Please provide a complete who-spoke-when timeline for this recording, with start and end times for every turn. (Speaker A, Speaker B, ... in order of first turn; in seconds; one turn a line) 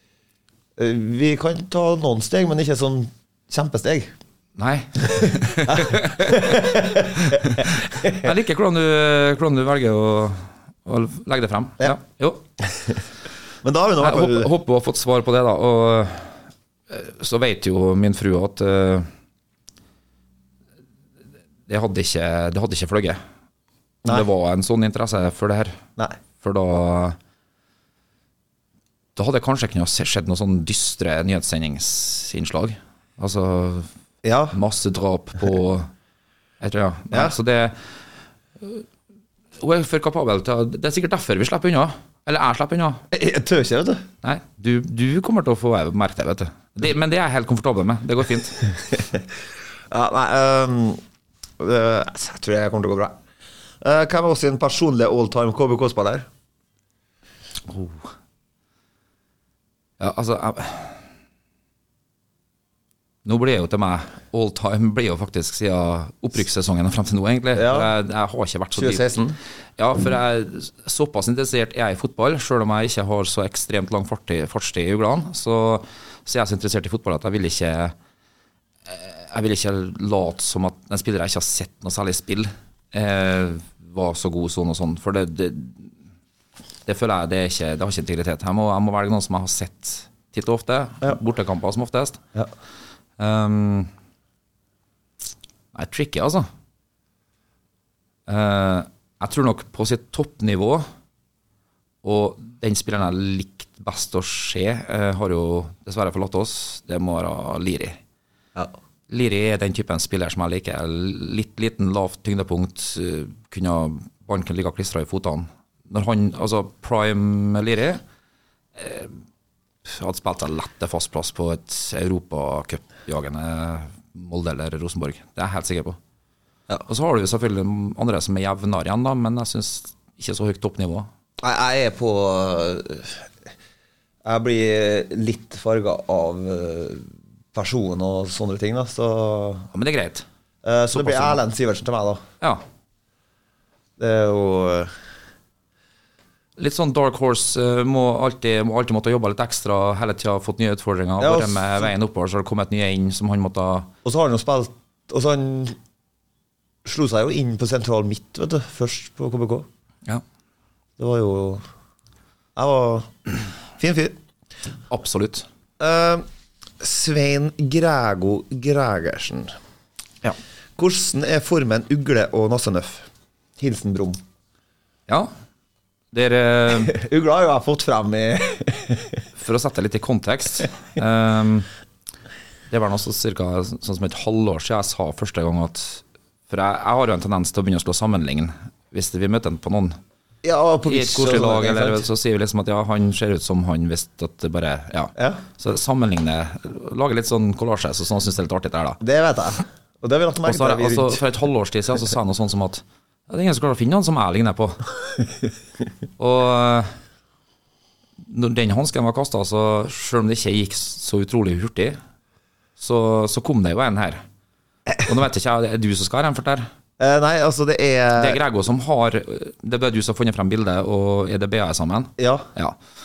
Speaker A: 0.8-4.1
Speaker B: 4.5-12.4
Speaker A: 5.1-8.3
Speaker A: 12.6-13.0
Speaker A: 13.6-14.5
Speaker B: 14.0-19.1
Speaker B: 21.7-23.2
Speaker B: 24.0-25.8
Speaker B: 26.4-27.2
Speaker B: 29.1-33.9
Speaker A: 34.2-34.6
Speaker B: 34.5-35.9
Speaker B: 36.6-37.8
Speaker B: 38.6-38.9
Speaker B: 39.6-43.0
Speaker A: 43.1-44.0
Speaker B: 44.2-48.7
Speaker A: 48.9-49.2
Speaker A: 49.9-51.0
Speaker A: 51.6-53.1
Speaker A: 53.8-56.3
Speaker B: 57.7-58.1
Speaker B: 60.0-61.0
Speaker B: 63.2-69.1
Speaker A: 67.5-67.9
Speaker A: 68.8-69.4
Speaker B: 69.8-77.9
Speaker B: 78.9-85.9
Speaker B: 86.8-92.2
Speaker B: 93.2-93.9
Speaker B: 95.7-96.5
Speaker B: 98.3-100.8
Speaker B: 102.0-108.0
Speaker B: 109.1-118.0
Speaker B: 118.8-119.2
Speaker B: 119.8-126.0
Speaker B: 126.8-131.1
Speaker A: 131.4-133.3
Speaker A: 134.2-139.7
Speaker B: 139.7-140.2
Speaker A: 140.6-142.2
Speaker B: 140.9-141.4
Speaker A: 144.0-144.9
Speaker B: 146.6-153.9
Speaker A: 151.2-151.9
Speaker A: 154.0-155.8
Speaker A: 156.8-159.7
Speaker A: 161.0-161.6
Speaker A: 162.6-164.2
Speaker B: 164.9-165.4
Speaker A: 165.8-166.2
Speaker A: 166.8-169.5
Speaker A: 170.8-174.2
Speaker B: 176.1-176.9
Speaker A: 176.7-179.2
Speaker B: 179.4-181.7
Speaker B: 182.7-190.0
Speaker A: 190.4-192.1
Speaker B: 190.8-199.0
Speaker A: 195.2-195.4
Speaker A: 199.0-201.2
Speaker B: 200.4-204.9
Speaker B: 206.2-206.9
Speaker B: 208.2-212.0
Speaker B: 212.8-214.2
Speaker B: 215.0-216.7
Speaker A: 217.0-218.4
Speaker B: 218.2-222.8
Speaker A: 222.2-222.5